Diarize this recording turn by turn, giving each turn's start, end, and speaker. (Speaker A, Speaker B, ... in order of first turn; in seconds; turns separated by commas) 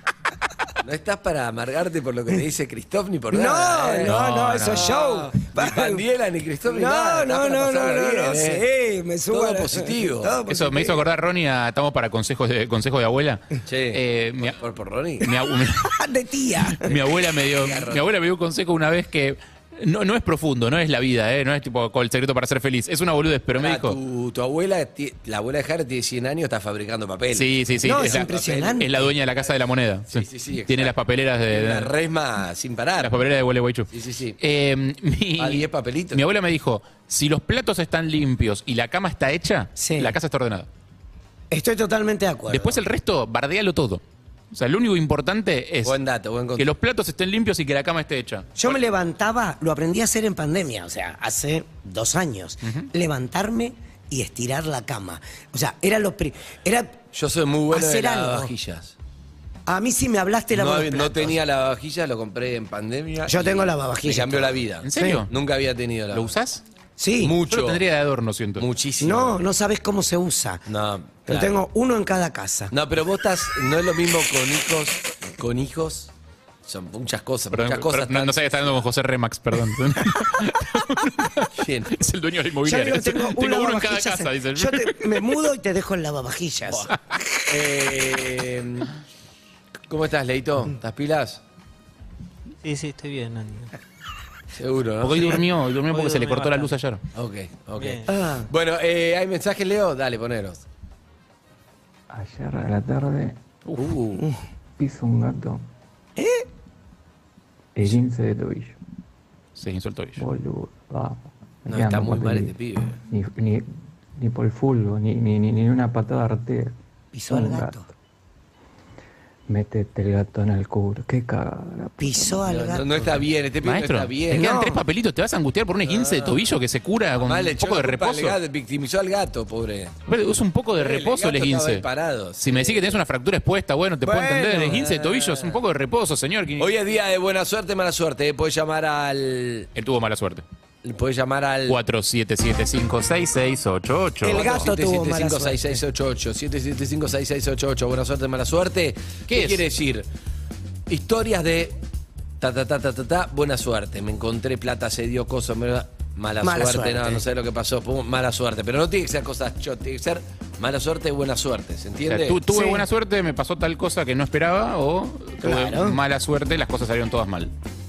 Speaker A: 0.8-8.6, Speaker B: 3.3-6.0, Speaker C: 4.0-4.9, Speaker B: 6.7-11.1, Speaker A: 9.3-10.4, Speaker C: 10.5-14.6, Speaker A: 13.7-15.3, Speaker C: 15.2-16.0, Speaker B: 15.8-16.9, Speaker C: 16.8-24.0, Speaker A: 17.6-18.0, Speaker A: 23.5-29.2, Speaker C: 27.3-31.9, Speaker B: 27.8-28.9, Speaker A: 30.1-31.0, Speaker A: 31.5-33.1, Speaker C: 33.0-40.7, Speaker A: 33.9-34.4, Speaker A: 35.4-36.2, Speaker B: 39.8-40.1, Speaker B: 41.5-42.8, Speaker C: 42.5-46.0, Speaker A: 45.9-46.7, Speaker C: 46.6-48.5, Speaker B: 48.6-57.0, Speaker A: 57.1-58.9, Speaker B: 57.7-58.5, Speaker B: 59.7-61.4, Speaker A: 60.5-66.3, Speaker B: 63.3-65.2, Speaker C: 64.8-65.3, Speaker C: 66.1-66.6, Speaker B: 67.0-67.3, Speaker A: 67.2-67.8, Speaker C: 67.5-68.7, Speaker A: 68.6-69.4, Speaker B: 69.0-70.6, Speaker A: 70.7-71.6, Speaker B: 71.3-72.7, Speaker A: 72.7-76.1, Speaker A: 76.7-78.8, Speaker C: 77.5-85.4, Speaker A: 81.5-82.0, Speaker B: 82.6-87.4, Speaker A: 87.5-88.9, Speaker A: 89.9-91.4, Speaker D: 92.6-93.7, Speaker A: 94.6-95.4, Speaker C: 95.0-97.0, Speaker D: 95.9-96.8, Speaker A: 97.1-100.6, Speaker D: 97.8-98.1, Speaker B: 98.1-98.5, Speaker E: 102.1-103.4, Speaker C: 103.7-104.2, Speaker E: 104.8-105.6, Speaker B: 106.2-106.5, Speaker E: 107.8-108.8, Speaker C: 109.6-110.2, Speaker E: 110.2-116.8, Speaker A: 111.7-113.0, Speaker B: 117.1-117.9, Speaker E: 117.3-117.8, Speaker E: 119.5-122.6, Speaker B: 122.0-122.9, Speaker A: 122.5-124.6, Speaker C: 123.6-128.4, Speaker B: 124.3-124.8, Speaker A: 125.8-126.4, Speaker A: 127.2-130.0, Speaker C: 130.1-131.8, Speaker A: 130.8-133.0, Speaker C: 132.4-136.7, Speaker B: 134.0-134.8, Speaker A: 134.6-135.6, Speaker A: 136.6-139.7, Speaker C: 139.8-140.4, Speaker A: 140.8-141.8, Speaker C: 141.7-144.6, Speaker B: 144.2-145.8, Speaker A: 144.2-150.1, Speaker C: 149.3-149.6, Speaker A: 150.9-151.8, Speaker A: 152.4-162.4, Speaker B: 156.4-157.2, Speaker C: 162.1-167.5, Speaker B: 162.5-162.9, Speaker B: 165.4-166.0